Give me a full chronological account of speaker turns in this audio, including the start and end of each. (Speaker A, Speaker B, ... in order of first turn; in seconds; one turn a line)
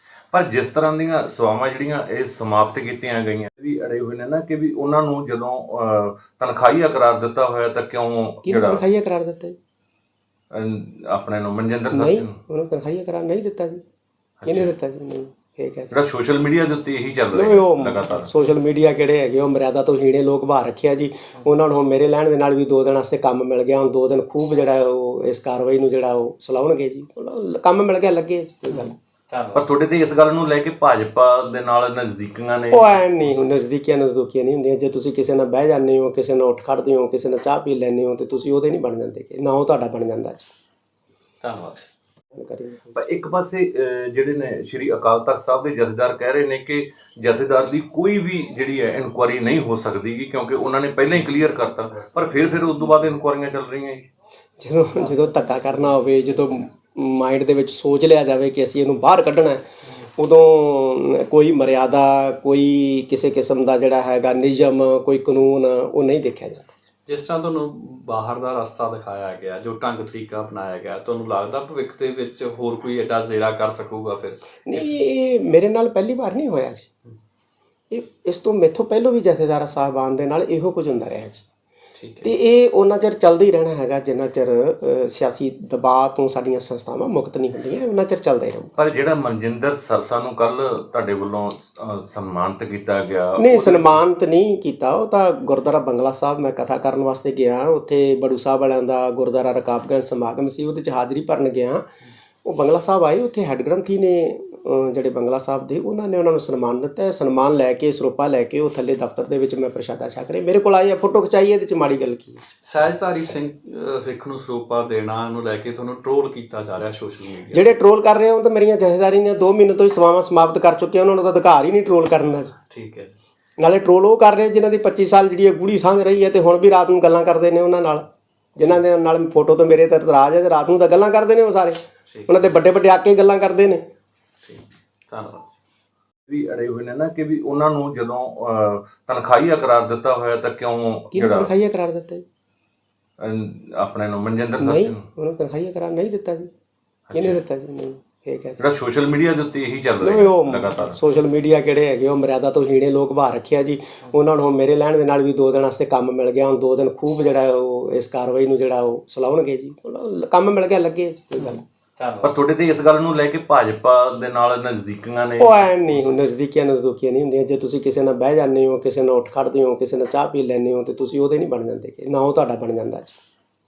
Speaker A: 0.3-8.8
Speaker B: 8.4-9.6
Speaker A: 10.5-12.4
Speaker B: 11.9-13.8
Speaker A: 14.4-14.7
Speaker B: 14.4-16.0
Speaker A: 15.9-18.3
Speaker B: 17.3-28.9
Speaker C: 28.7-29.7
Speaker A: 29.5-33.0
Speaker B: 32.7-40.5
Speaker C: 41.4-41.9
Speaker B: 42.3-43.2
Speaker A: 43.0-54.1
Speaker B: 54.6-59.6
Speaker C: 55.0-55.6
Speaker B: 60.2-66.8
Speaker C: 67.1-75.0
Speaker B: 74.7-76.9
Speaker B: 77.9-81.5
Speaker C: 82.0-82.3
Speaker B: 82.2-88.7
Speaker A: 88.8-94.0
Speaker B: 93.4-101.9
Speaker B: 102.4-112.5
Speaker C: 112.6-117.7
Speaker B: 117.5-122.5
Speaker C: 122.7-123.2
Speaker B: 123.6-128.0
Speaker B: 128.6-133.8
Speaker C: 132.1-132.4
Speaker C: 134.4-135.6
Speaker A: 136.3-141.5
Speaker B: 141.1-142.2
Speaker A: 143.2-145.0
Speaker B: 144.6-146.5
Speaker A: 147.1-147.4
Speaker B: 147.1-148.6
Speaker A: 148.6-151.0
Speaker B: 150.0-161.6
Speaker C: 161.4-162.4
Speaker A: 162.2-166.0
Speaker B: 165.4-173.2